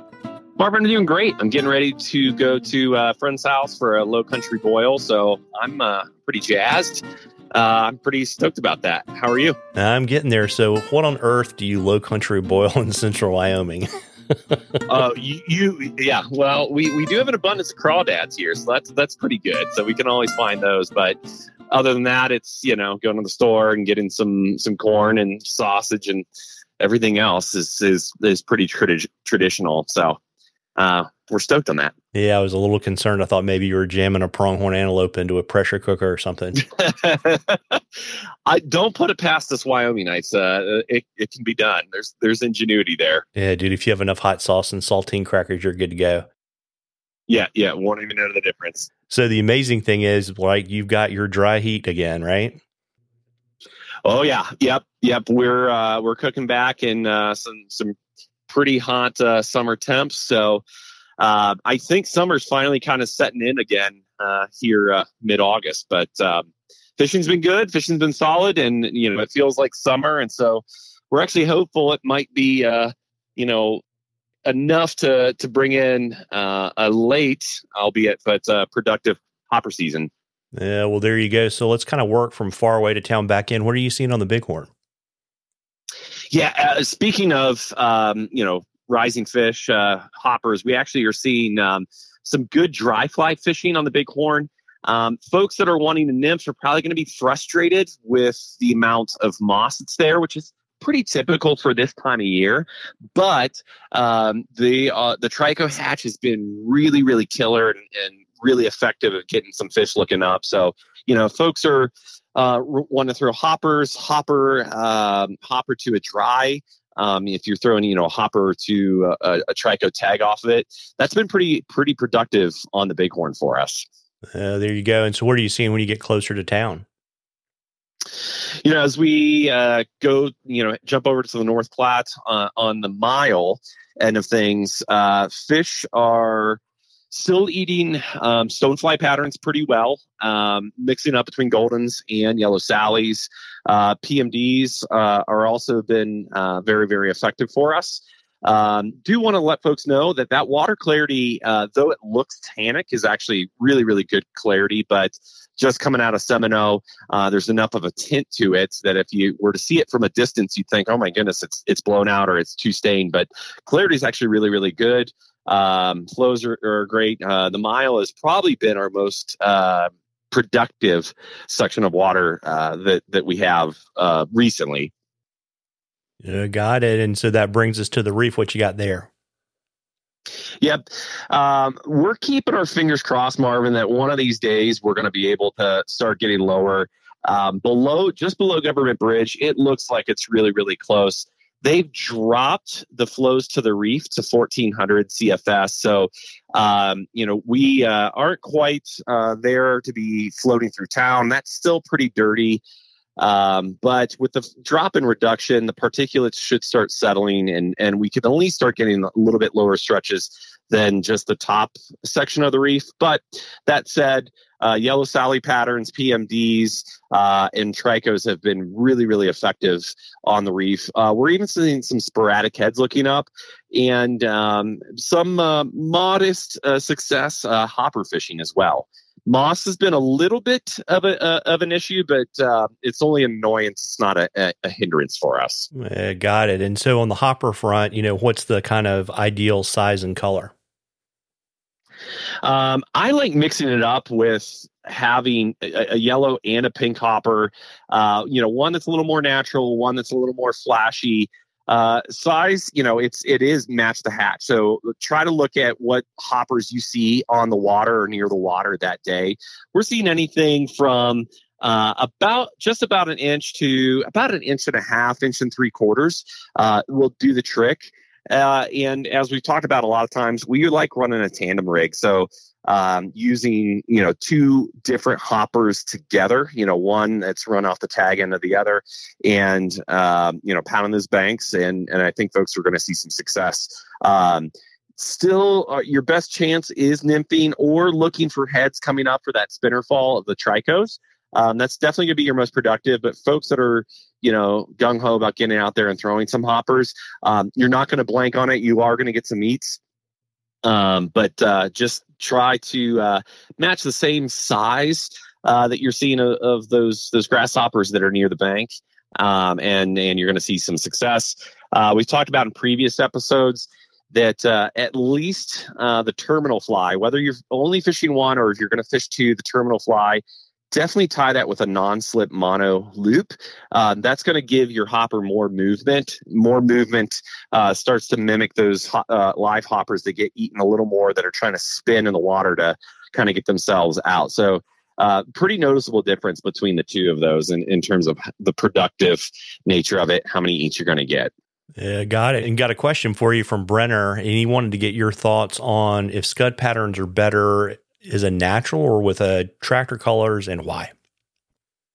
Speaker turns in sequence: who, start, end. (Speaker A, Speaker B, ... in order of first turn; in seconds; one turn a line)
Speaker A: 0.6-9.6
Speaker B: 9.7-13.9
Speaker A: 14.9-21.1
Speaker A: 21.7-26.2
Speaker A: 26.8-30.2
Speaker A: 30.8-31.9
Speaker B: 32.1-36.6
Speaker A: 36.7-37.8
Speaker A: 38.5-43.2
Speaker B: 43.4-46.2
Speaker A: 47.3-48.9
Speaker B: 49.1-52.6
Speaker A: 54.0-57.9
Speaker A: 58.5-60.6
Speaker A: 61.2-73.8
Speaker A: 74.5-80.1
Speaker B: 80.5-84.7
Speaker A: 86.3-123.8
Speaker B: 124.3-126.8
Speaker A: 128.6-136.6
Speaker A: 137.1-174.9
Speaker B: 176.2-179.1
Speaker A: 180.6-202.6
Speaker A: 203.2-235.7
Speaker B: 235.7-240.5
Speaker A: 242.4-299.8
Speaker A: 300.6-320.2
Speaker A: 320.7-341.3
Speaker B: 341.8-350.9